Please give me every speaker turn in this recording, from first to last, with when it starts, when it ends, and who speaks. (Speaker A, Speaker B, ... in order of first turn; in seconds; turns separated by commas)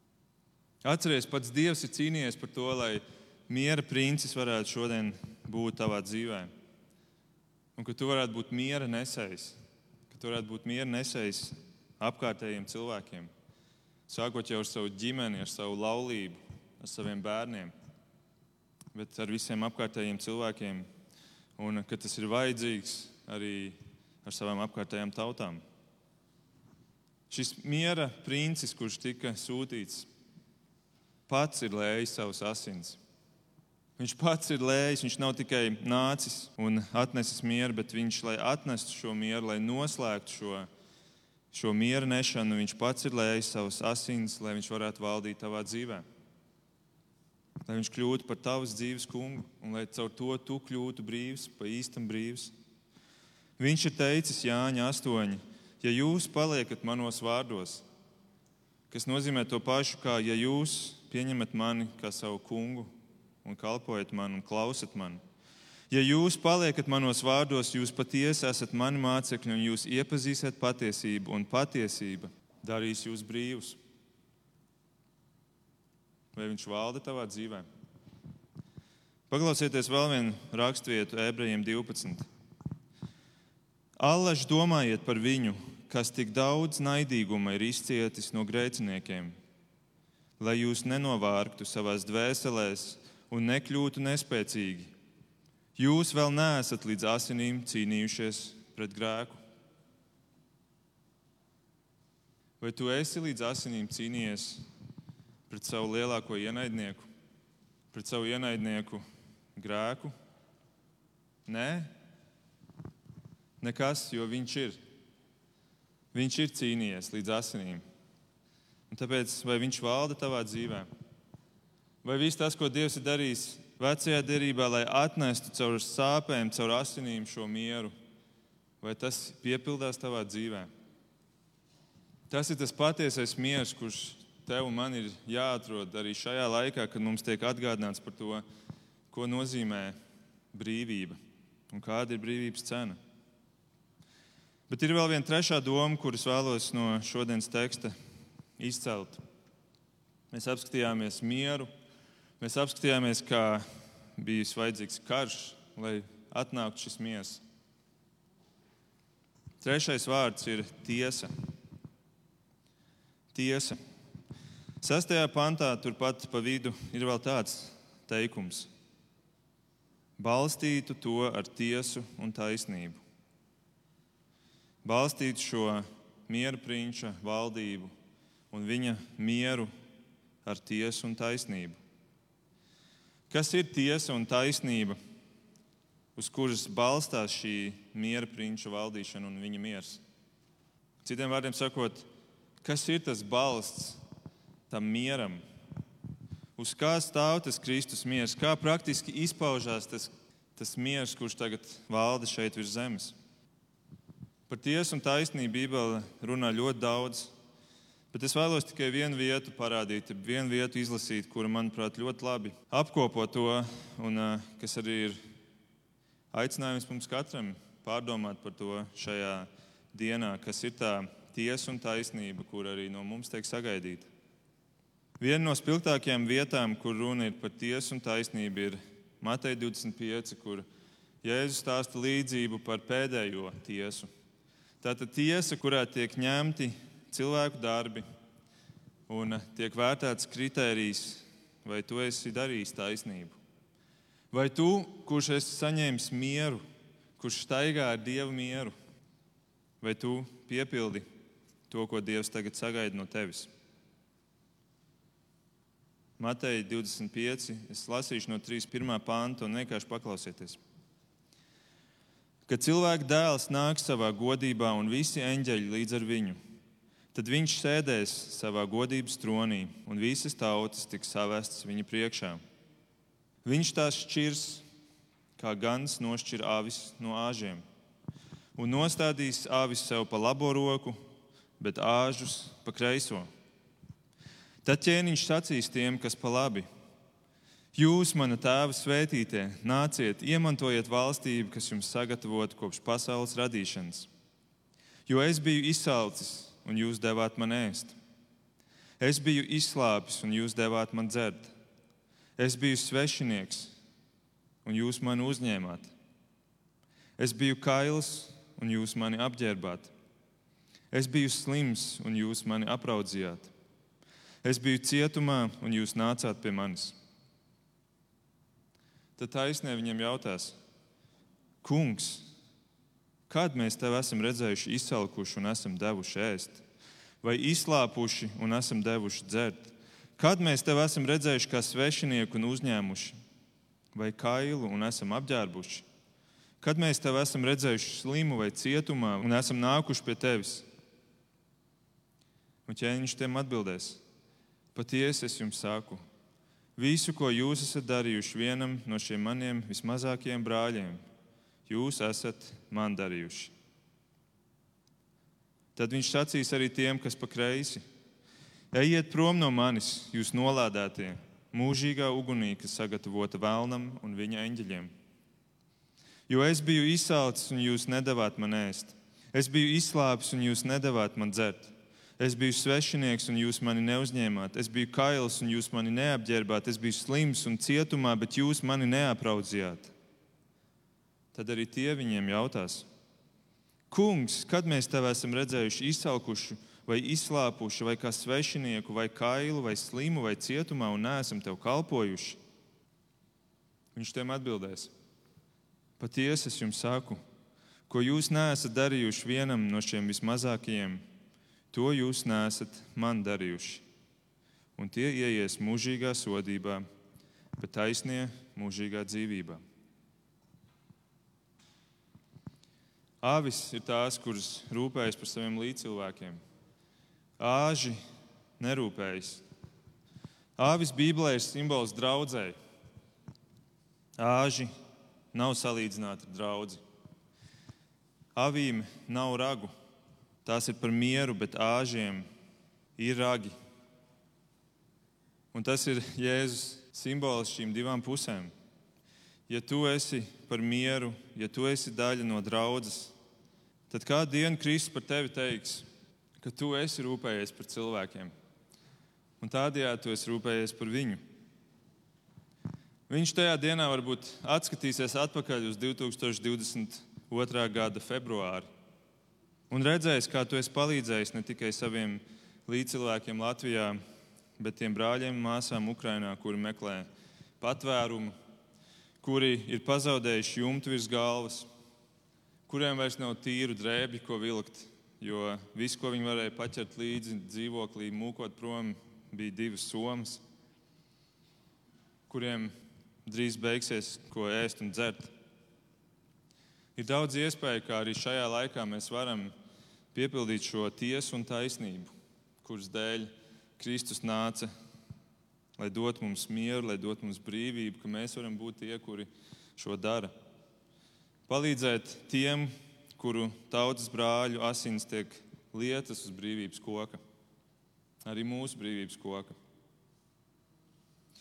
Speaker A: 0.8-6.5, Speaker A: 7.8-9.6, Speaker A: 10.1-13.3, Speaker A: 14.1-17.7, Speaker A: 18.9-20.9, Speaker A: 21.6-25.6, Speaker A: 27.3-30.1, Speaker A: 31.3-33.0, Speaker A: 34.0-40.7, Speaker A: 41.5-46.0, Speaker A: 47.6-52.5, Speaker A: 53.6-57.8, Speaker A: 58.9-62.9, Speaker A: 63.4-65.2, Speaker A: 65.9-73.8, Speaker A: 76.3-77.7, Speaker A: 79.3-82.2, Speaker A: 84.0-89.3, Speaker A: 90.4-94.9, Speaker A: 95.8-99.4, Speaker A: 102.6-104.6, Speaker A: 105.5-107.1, Speaker A: 107.9-109.0, Speaker A: 109.5-110.1, Speaker A: 111.5-111.9, Speaker A: 113.6-114.8, Speaker A: 116.1-117.8, Speaker A: 118.9-120.9, Speaker A: 122.0-127.9, Speaker A: 128.8-130.7, Speaker A: 132.3-138.4, Speaker A: 139.1-139.9, Speaker A: 140.5-141.2, Speaker A: 141.7-143.0, Speaker A: 144.7-147.9, Speaker A: 148.6-149.2, Speaker A: 150.3-151.7, Speaker A: 152.4-153.6, Speaker A: 154.2-157.4, Speaker A: 159.6-161.3, Speaker A: 163.3-163.8, Speaker A: 164.8-168.7, Speaker A: 170.2-173.0, Speaker A: 174.8-177.9, Speaker A: 178.5-179.7, Speaker A: 180.4-181.8, Speaker A: 183.3-185.0, Speaker A: 186.2-190.0, Speaker A: 191.0-192.1, Speaker A: 192.6-194.0, Speaker A: 194.7-195.4, Speaker A: 196.6-203.1, Speaker A: 204.5-207.3, Speaker A: 208.1-215.2, Speaker A: 216.3-224.1, Speaker A: 225.2-230.6, Speaker A: 231.2-234.1, Speaker A: 234.8-238.0, Speaker A: 239.1-243.4, Speaker A: 244.3-246.6, Speaker A: 247.2-248.7, Speaker A: 249.8-251.1, Speaker A: 251.7-253.5, Speaker A: 256.2-260.6, Speaker A: 262.5-266.4, Speaker A: 267.1-272.4, Speaker A: 273.4-274.6, Speaker A: 275.4-277.6, Speaker A: 278.6-281.0, Speaker A: 281.6-283.3, Speaker A: 284.6-286.7, Speaker A: 287.7-294.1, Speaker A: 295.1-297.9, Speaker A: 299.0-301.5, Speaker A: 302.4-303.7, Speaker A: 304.6-305.9, Speaker A: 307.2-309.9, Speaker A: 310.9-313.5, Speaker A: 314.4-316.9, Speaker A: 319.2-320.6, Speaker A: 321.6-322.2, Speaker A: 323.3-326.6, Speaker A: 327.2-333.1, Speaker A: 333.9-335.8, Speaker A: 336.6-340.6, Speaker A: 342.6-344.0, Speaker A: 344.7-346.0, Speaker A: 346.8-351.0, Speaker A: 351.7-353.5, Speaker A: 355.8-357.8, Speaker A: 358.7-364.9, Speaker A: 366.3-379.9, Speaker A: 381.3-382.9, Speaker A: 383.9-392.4, Speaker A: 393.9-394.9, Speaker A: 396.0-397.2, Speaker A: 397.9-401.0, Speaker A: 401.7-403.8, Speaker A: 404.8-406.8, Speaker A: 407.6-409.6, Speaker A: 413.2-416.4, Speaker A: 417.4-418.0, Speaker A: 418.6-419.4, Speaker A: 420.6-422.6, Speaker A: 424.2-424.7, Speaker A: 425.3-426.8, Speaker A: 428.4-429.7, Speaker A: 430.4-432.2, Speaker A: 433.0-433.5, Speaker A: 435.5-438.5, Speaker A: 439.5-443.1, Speaker A: 443.9-445.9, Speaker A: 446.4-448.3, Speaker A: 449.4-451.2, Speaker A: 453.1-458.7, Speaker A: 459.7-464.0, Speaker A: 464.6-467.1, Speaker A: 467.6-468.3, Speaker A: 469.2-471.7, Speaker A: 472.7-480.4, Speaker A: 482.3-482.7, Speaker A: 483.2-485.3, Speaker A: 486.9-489.5, Speaker A: 490.1-494.7, Speaker A: 495.8-500.3, Speaker A: 501.5-507.2, Speaker A: 508.2-509.6